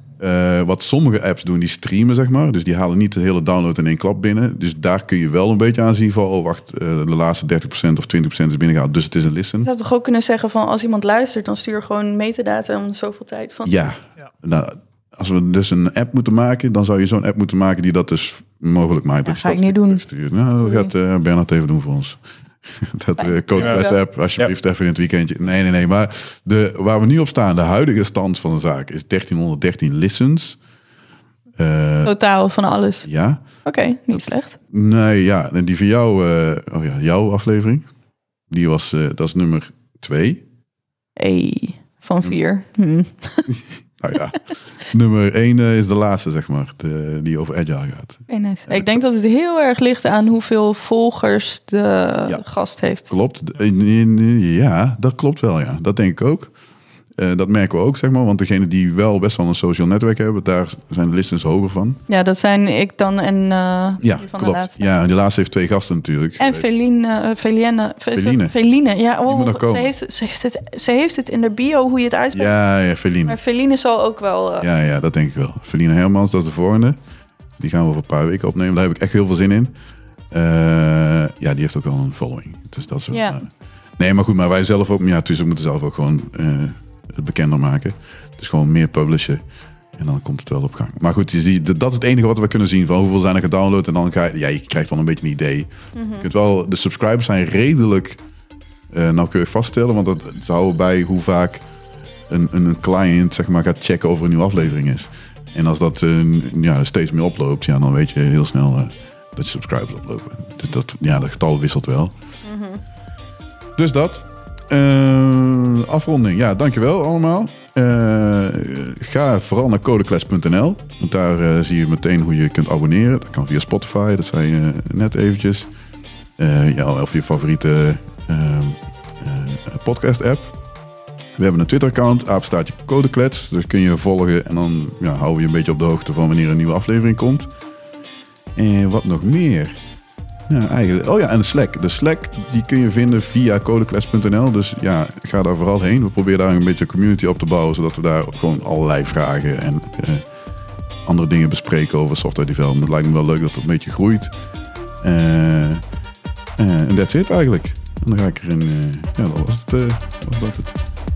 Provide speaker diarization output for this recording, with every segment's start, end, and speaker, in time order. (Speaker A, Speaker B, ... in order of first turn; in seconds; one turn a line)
Speaker A: 0.2-9.7
Speaker B: 9.6-13.9
Speaker A: 13.7-30.6
Speaker B: 19.2-20.0
Speaker B: 20.6-20.9
Speaker B: 23.2-24.0
Speaker A: 31.6-32.1
Speaker B: 32.0-33.1
Speaker A: 33.0-33.4
Speaker B: 33.6-34.6
Speaker A: 34.7-37.9
Speaker A: 38.5-40.4
Speaker B: 41.2-43.6
Speaker A: 43.5-49.0
Speaker B: 48.3-53.1
Speaker A: 53.1-56.5
Speaker A: 57.2-62.0
Speaker B: 62.1-64.9
Speaker A: 64.0-66.7
Speaker B: 66.4-72.6
Speaker A: 68.2-68.5
Speaker A: 69.3-69.9
Speaker A: 72.3-73.4
Speaker B: 73.2-74.7
Speaker A: 74.6-77.0
Speaker A: 77.6-79.8
Speaker A: 80.3-89.4
Speaker B: 83.1-83.4
Speaker A: 90.0-98.2
Speaker B: 96.0-96.3
Speaker A: 98.9-101.6
Speaker A: 102.3-112.1
Speaker B: 112.5-112.8
Speaker A: 113.8-125.7
Speaker A: 126.4-130.5
Speaker A: 131.4-137.5
Speaker A: 138.6-139.8
Speaker A: 140.5-150.2
Speaker A: 151.1-154.3
Speaker A: 155.0-155.8
Speaker A: 156.6-160.8